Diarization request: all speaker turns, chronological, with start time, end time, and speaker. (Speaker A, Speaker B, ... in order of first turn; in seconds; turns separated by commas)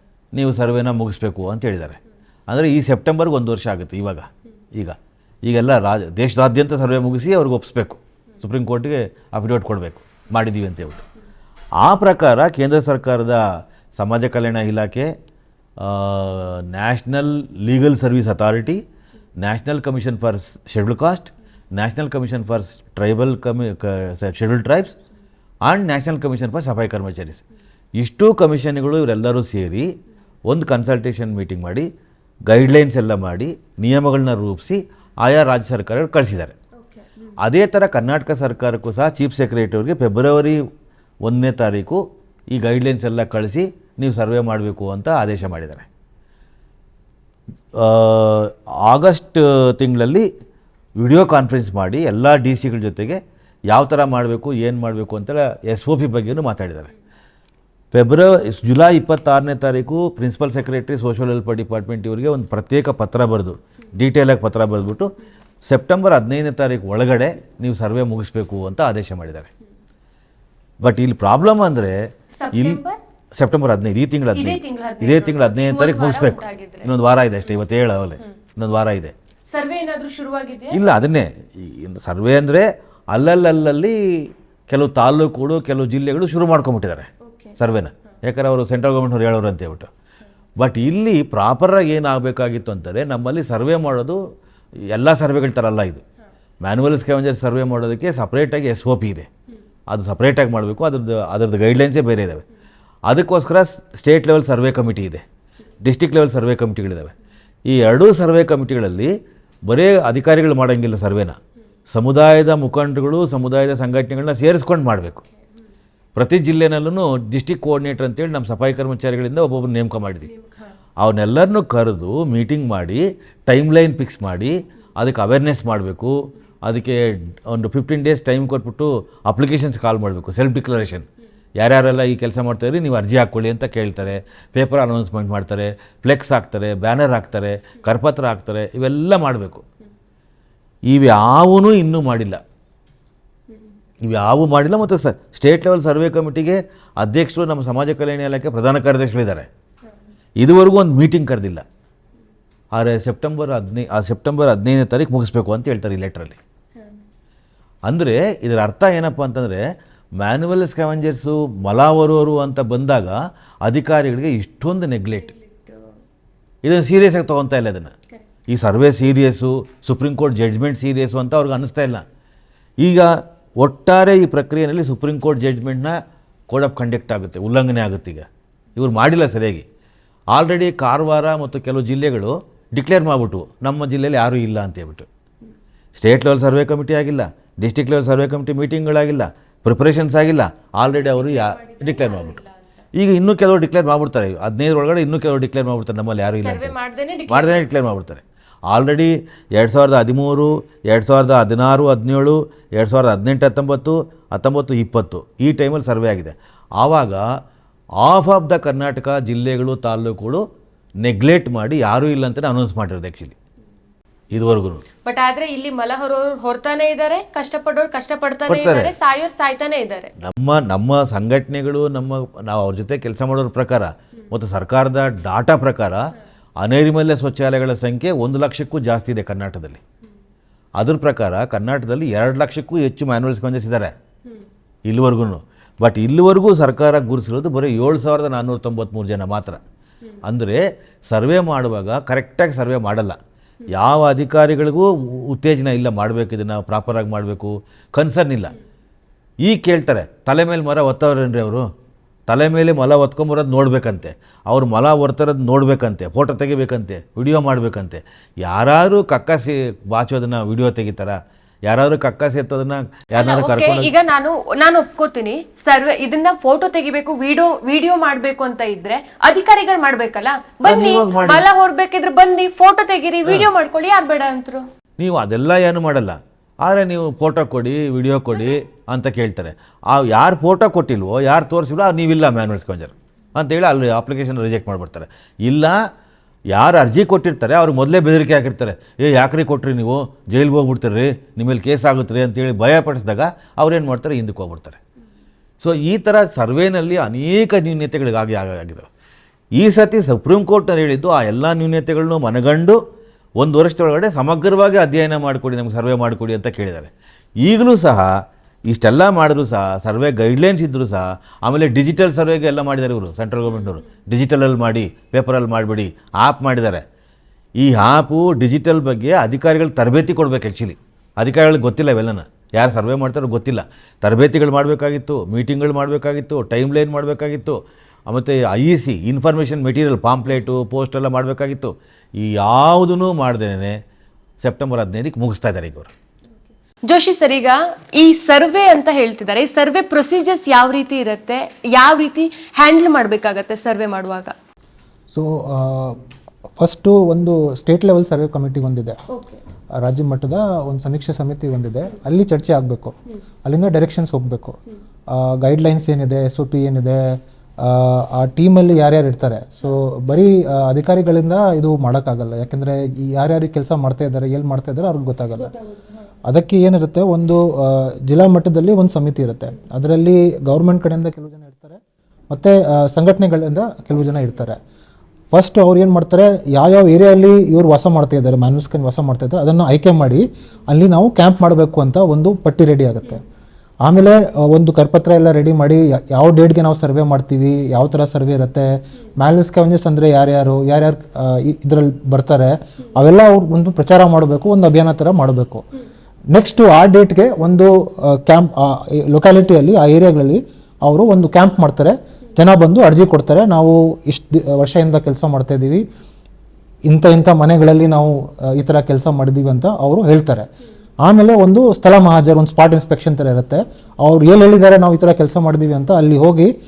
Speaker A: 0.3-11.0, Speaker A: 11.8-13.4, Speaker A: 13.9-15.1, Speaker A: 15.8-18.8, Speaker A: 19.4-24.9, Speaker A: 25.6-27.4, Speaker A: 28.0-29.9, Speaker A: 30.4-31.9, Speaker A: 32.5-36.5, Speaker B: 36.8-37.4, Speaker A: 37.4-40.6, Speaker A: 41.2-45.9, Speaker A: 47.8-50.3, Speaker A: 51.0-56.9, Speaker A: 57.9-65.1, Speaker A: 65.6-69.5, Speaker A: 70.8-72.0, Speaker B: 72.3-73.0, Speaker A: 72.5-72.8, Speaker A: 73.3-79.1, Speaker B: 74.3-76.9, Speaker B: 79.5-80.8, Speaker A: 80.7-89.9, Speaker B: 87.2-87.6, Speaker A: 90.6-94.2, Speaker A: 94.9-96.0, Speaker A: 96.6-99.3, Speaker A: 99.9-102.4, Speaker A: 103.0-105.2, Speaker A: 105.8-107.1, Speaker A: 107.7-109.1, Speaker A: 109.7-111.4, Speaker A: 111.9-115.2, Speaker A: 116.1-120.3, Speaker B: 120.2-120.7, Speaker A: 121.0-139.6, Speaker A: 140.8-142.4, Speaker A: 144.0-149.5, Speaker A: 150.4-151.6, Speaker A: 152.7-156.4, Speaker A: 157.8-159.7, Speaker A: 160.2-165.3, Speaker B: 165.1-165.9, Speaker A: 166.6-167.9, Speaker A: 168.5-172.0, Speaker A: 172.8-176.0, Speaker A: 176.5-179.6, Speaker A: 180.3-185.1, Speaker A: 185.9-192.3, Speaker B: 190.8-192.8, Speaker A: 192.9-196.7, Speaker B: 196.4-197.7, Speaker A: 197.3-207.2, Speaker A: 208.0-210.4, Speaker A: 211.0-213.3, Speaker A: 214.3-214.8, Speaker B: 215.0-220.1, Speaker A: 218.5-218.9, Speaker A: 220.2-229.8, Speaker A: 230.8-233.9, Speaker A: 234.8-239.6, Speaker A: 240.2-243.2, Speaker A: 243.7-248.5, Speaker A: 249.4-251.7, Speaker A: 252.3-263.9, Speaker B: 263.1-274.6, Speaker A: 270.6-271.4, Speaker A: 275.0-285.8, Speaker A: 286.5-294.8, Speaker A: 295.6-298.9, Speaker A: 299.5-302.8, Speaker A: 303.4-306.9, Speaker A: 307.4-308.1, Speaker A: 308.7-316.8, Speaker B: 313.5-313.8, Speaker A: 317.6-333.8, Speaker A: 334.4-335.9, Speaker B: 336.9-344.3, Speaker C: 345.1-346.0, Speaker C: 346.6-349.0, Speaker B: 349.1-349.4, Speaker C: 349.8-354.6, Speaker C: 355.1-365.5, Speaker C: 366.2-371.8, Speaker C: 372.3-374.6, Speaker C: 375.3-383.2, Speaker C: 383.8-395.6, Speaker C: 396.3-405.8, Speaker C: 406.9-410.5, Speaker C: 411.0-416.5